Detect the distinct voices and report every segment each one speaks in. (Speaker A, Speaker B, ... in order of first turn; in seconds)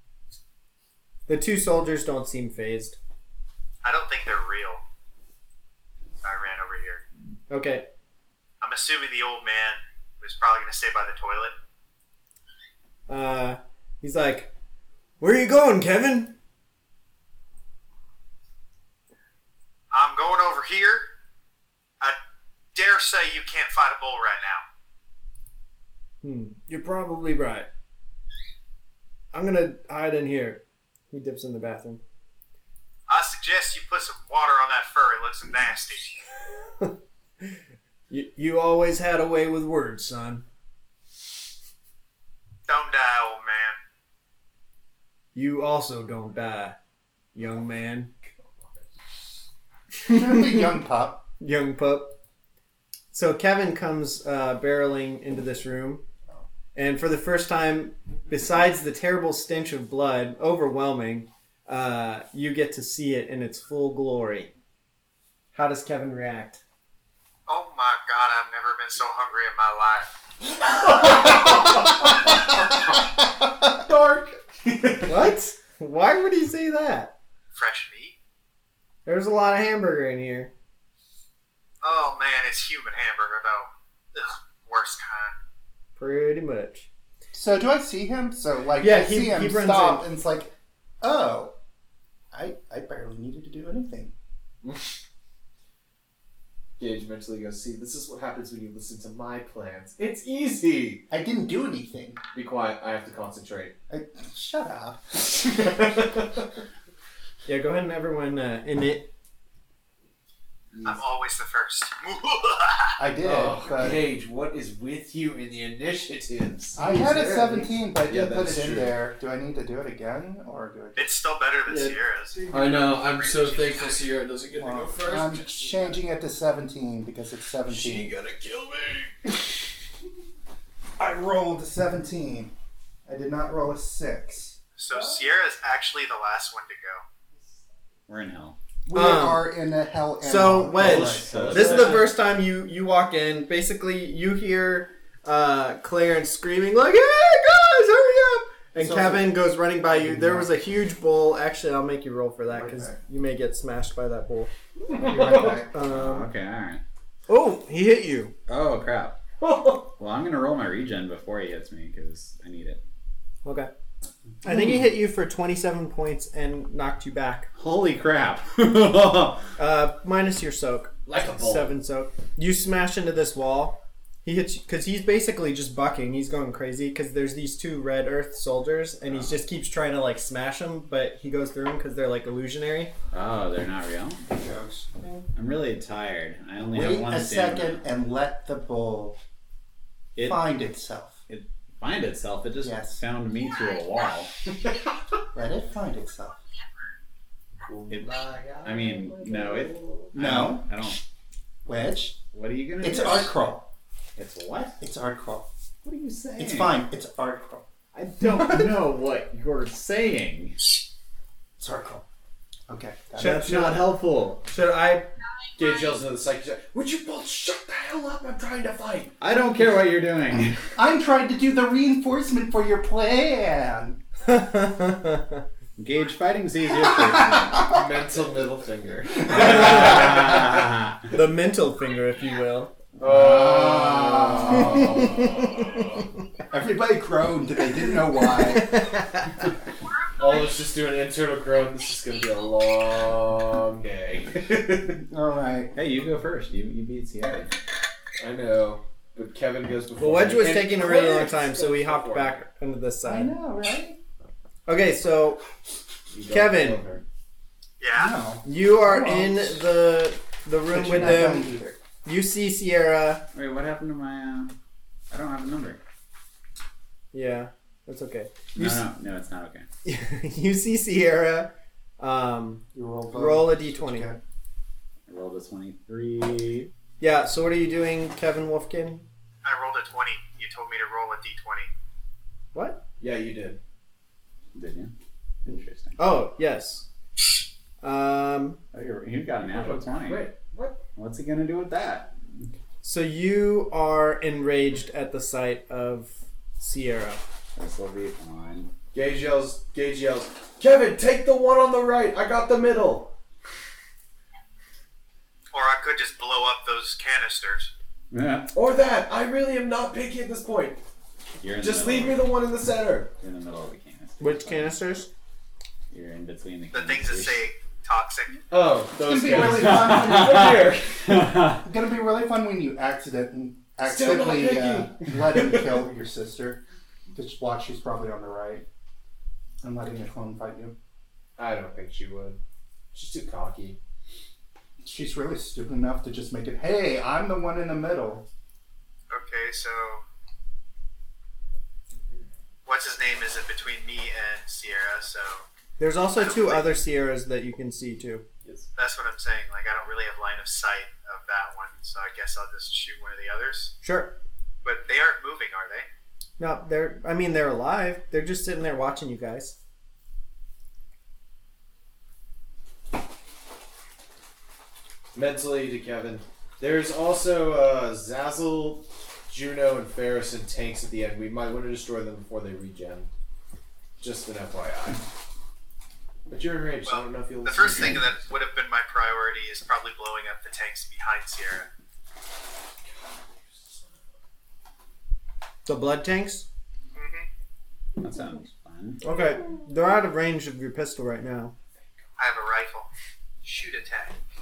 Speaker A: 1.3-3.0, 7.5-7.9, 13.1-14.5, 15.2-16.4, 26.2-27.7, 29.3-32.0, 36.8-37.6, 38.1-40.4, 45.3-46.8, 47.3-48.1, 50.0-50.7, 51.4-52.1, 53.1-56.0, 56.7-64.5, 65.5-66.6, 75.0-77.1, 79.0-80.5, 86.0-86.9, 88.8-90.0, 107.5-109.1, 138.9-139.4, 140.2-154.5, 155.7-156.3, 157.3-158.3, 163.4-163.7, 164.4-167.5, 169.6-182.9, 213.2-213.9, 214.4-215.1, 224.2-225.4, 231.1-232.7, 234.6-235.9, 238.4-239.4, 250.0-253.4, 254.7-255.4, 256.3-256.8, 258.4-261.5, 262.0-263.2, 267.1-268.8, 269.8-274.1, 277.0-279.1, 282.5-282.8, 286.0-286.9, 287.8-288.6, 292.8-297.2, 314.2-315.1, 345.8-348.2, 353.8-354.2, 356.4-359.6, 385.6-386.5, 389.0-391.5
Speaker B: 3.8-4.8, 6.2-7.0, 8.6-11.5, 19.9-21.1, 22.7-24.6, 33.1-36.1, 42.7-43.8, 67.5-70.1, 77.5-78.1, 81.8-85.4, 110.8-113.0, 121.0-124.0, 134.8-137.0, 257.8-258.1, 279.4-281.7, 305.5-307.7, 316.7-318.4, 339.1-340.0, 342.6-345.4, 346.2-346.6, 348.8-353.8, 354.6-355.9, 376.9-381.7, 386.9-387.2, 392.2-392.9, 393.4-394.2
Speaker C: 48.5-48.8, 70.7-73.0, 73.6-75.1, 94.6-94.9, 96.8-101.0, 102.3-103.7, 105.4-106.5, 113.2-118.9, 122.5-126.0, 127.7-129.3, 141.3-141.9, 154.9-155.6, 159.4-159.9, 171.1-171.7, 198.3-199.8, 215.5-219.1, 227.6-230.7, 233.0-235.3, 240.2-245.0, 248.2-252.4, 256.1-257.0, 283.0-283.6, 289.4-290.8, 298.9-303.1, 308.5-310.8, 311.6-313.1, 318.5-321.0, 323.8-325.9, 331.4-332.4, 332.9-333.8, 365.1-373.1, 374.0-375.1, 376.3-378.1
Speaker D: 50.0-51.2, 87.3-91.5, 92.3-94.1, 101.1-102.2, 103.9-106.0, 113.0-114.0, 116.8-121.1, 124.5-128.1, 131.0-132.5, 133.1-134.6, 138.8-141.9, 148.8-149.3, 149.9-150.5, 152.5-153.0, 154.9-155.7, 184.3-184.9, 186.6-189.2, 190.2-191.2, 192.6-193.0, 195.3-196.4, 200.1-200.7, 201.6-202.2, 202.8-203.7, 204.8-205.5, 206.3-207.7, 211.6-212.0, 212.7-213.6, 220.7-224.0, 226.8-227.8, 229.3-229.6, 233.1-235.1, 236.5-238.9, 245.0-245.7, 253.0-254.0, 257.9-259.6, 260.7-261.8, 272.7-274.2, 319.0-320.7, 321.6-326.6, 327.1-328.6, 329.6-330.8, 334.8-338.3
Speaker E: 138.1-138.6, 140.8-142.1, 155.8-156.8, 158.5-159.2, 160.0-162.8, 167.6-169.5, 179.1-179.4, 183.1-184.2, 185.3-187.8, 190.2-190.5, 191.3-194.5, 197.9-201.0, 202.3-203.3, 204.2-204.8, 205.8-206.8, 207.9-210.6, 213.2-214.4, 219.2-220.6, 225.8-227.7, 229.2-231.1, 233.0-235.7, 245.7-247.5, 263.3-264.5, 265.1-265.8, 268.5-269.6, 275.1-276.7, 284.5-284.9, 285.4-286.1, 288.7-290.3, 290.9-292.4, 297.6-298.7, 308.1-308.5, 311.4-312.3, 313.2-314.8, 315.9-317.4, 319.2-321.6, 388.0-389.0